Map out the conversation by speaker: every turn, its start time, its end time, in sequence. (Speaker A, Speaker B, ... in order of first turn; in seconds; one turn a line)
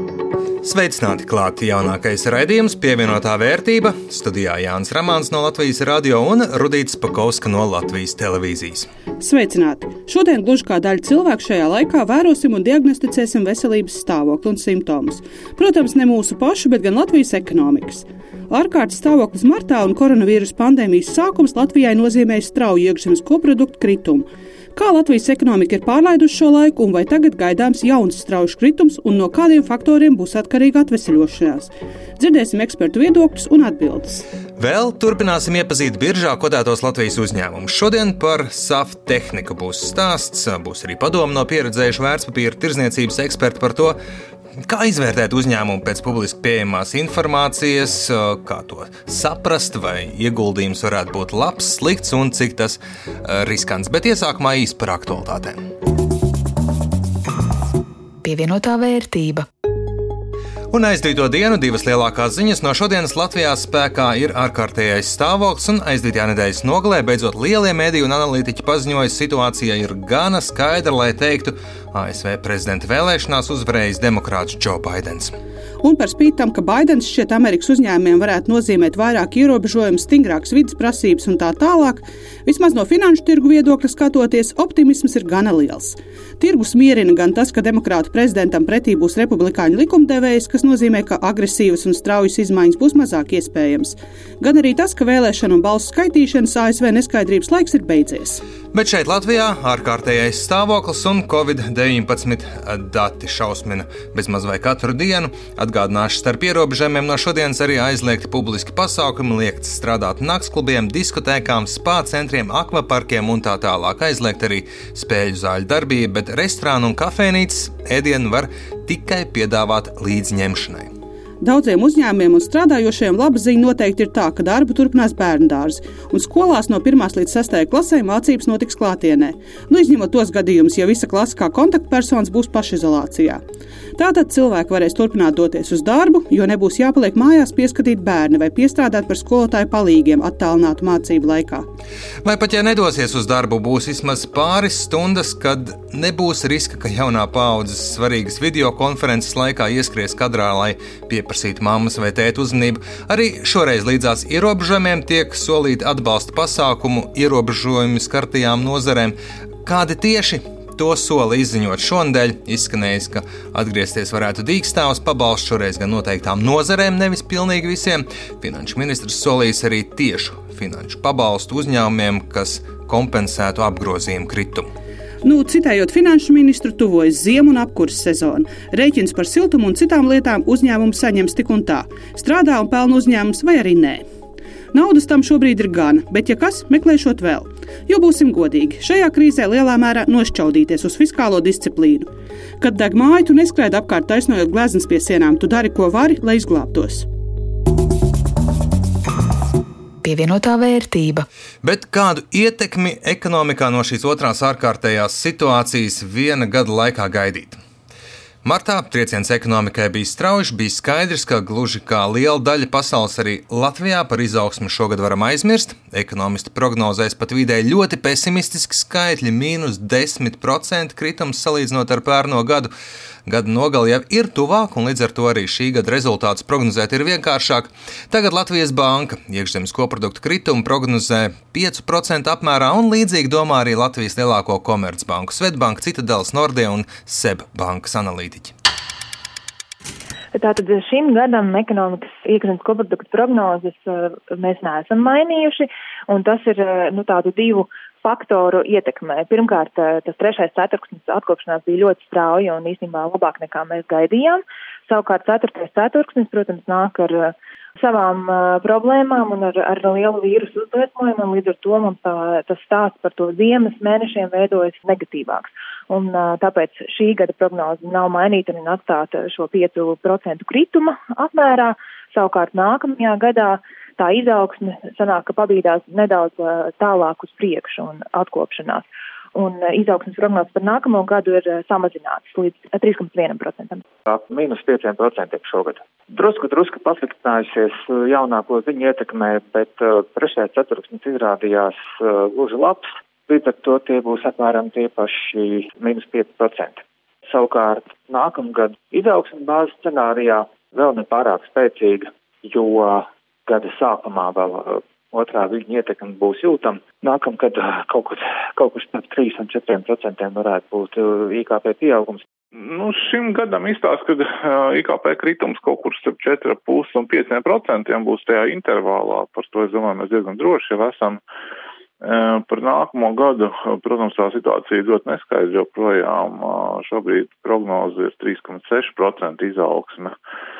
Speaker A: 0.6-8.9
Speaker B: 9.2-34.2
Speaker A: 34.6-44.0
Speaker A: 44.7-55.6
Speaker C: 58.2-59.5
Speaker A: 60.7-75.3
Speaker B: 75.8-98.4
Speaker A: 98.7-120.9
Speaker B: 121.4-133.4
Speaker B: 134.0-141.7
Speaker A: 142.2-174.7
Speaker B: 175.2-184.0
Speaker B: 184.7-192.1
Speaker B: 192.6-197.1
Speaker C: 200.0-201.2
Speaker A: 201.6-207.6
Speaker A: 208.4-222.7
Speaker A: 223.3-238.5
Speaker D: 240.3-283.8
Speaker E: 284.1-312.2
Speaker F: 312.6-321.2
Speaker F: 322.0-330.1